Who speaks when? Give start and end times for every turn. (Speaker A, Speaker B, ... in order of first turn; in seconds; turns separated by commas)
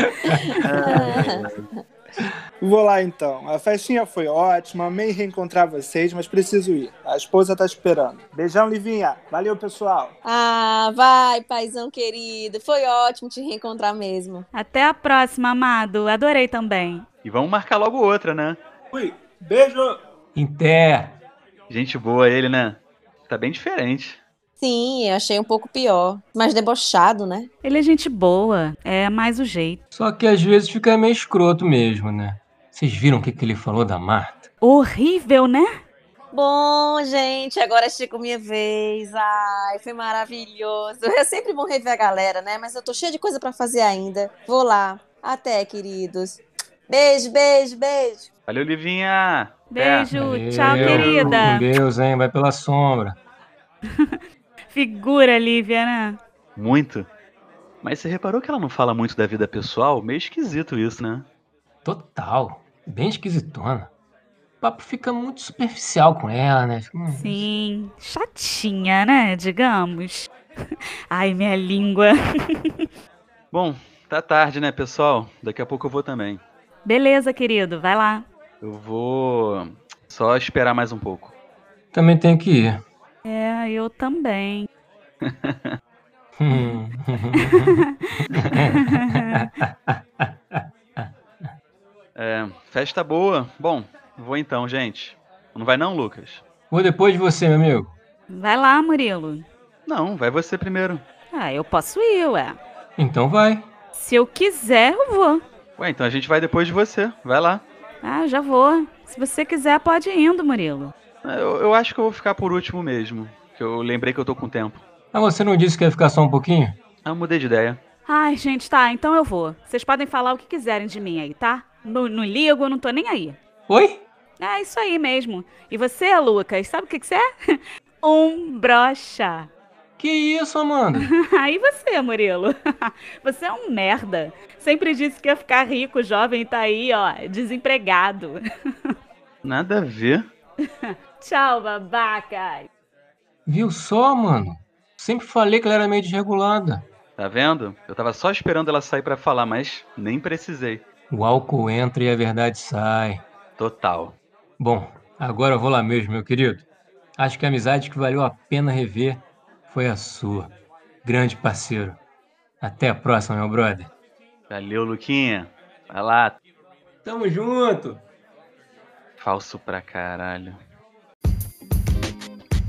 Speaker A: 0.1-0.9, Speaker B: 0.6-1.6, Speaker C: 0.7-1.5, Speaker D: 2.6-10.1, Speaker C: 10.2-14.4, Speaker E: 14.5-17.0, Speaker B: 17.2-18.6, Speaker D: 18.9-20.0, Speaker A: 20.3-21.2, Speaker B: 21.7-24.2, Speaker C: 24.6-27.5, Speaker E: 27.6-29.8, Speaker A: 29.9-34.5, Speaker E: 34.6-35.7, Speaker C: 36.3-46.4, Speaker C: 46.9-48.3, Speaker B: 48.5-51.6, Speaker E: 49.7-51.7, Speaker A: 50.1-53.2, Speaker E: 54.7-56.2, Speaker B: 56.5-57.1, Speaker B: 57.8-61.2, Speaker A: 61.8-63.9, Speaker A: 64.6-67.4, Speaker E: 67.1-70.3, Speaker E: 71.1-72.1, Speaker B: 73.5-76.4, Speaker E: 76.8-78.2, Speaker B: 78.6-81.3, Speaker A: 81.9-82.8, Speaker E: 83.3-84.7, Speaker B: 85.2-85.7, Speaker A: 86.4-87.7, Speaker E: 87.4-87.8, Speaker A: 88.4-88.8, Speaker E: 88.8-89.3, Speaker A: 89.6-91.1, Speaker B: 92.2-96.4, Speaker A: 96.7-97.9, Speaker E: 98.3-99.5, Speaker B: 99.8-101.0, Speaker E: 101.3-102.6, Speaker A: 103.0-103.7, Speaker E: 104.0-105.4, Speaker B: 105.8-107.6, Speaker E: 108.0-110.9, Speaker B: 111.2-114.8, Speaker A: 115.1-116.7, Speaker B: 117.0-117.8, Speaker E: 118.1-123.4, Speaker A: 123.7-124.0, Speaker E: 124.4-127.2, Speaker E: 128.0-129.5, Speaker A: 130.0-131.1, Speaker E: 131.0-132.5, Speaker E: 133.2-138.4, Speaker B: 139.4-140.3, Speaker E: 141.2-142.7, Speaker A: 143.4-146.8, Speaker B: 147.2-150.8, Speaker A: 151.1-153.2, Speaker B: 153.6-154.2, Speaker A: 154.6-156.7, Speaker A: 157.2-162.0, Speaker A: 162.6-163.9, Speaker B: 164.5-166.4, Speaker A: 167.0-168.0, Speaker B: 169.2-170.6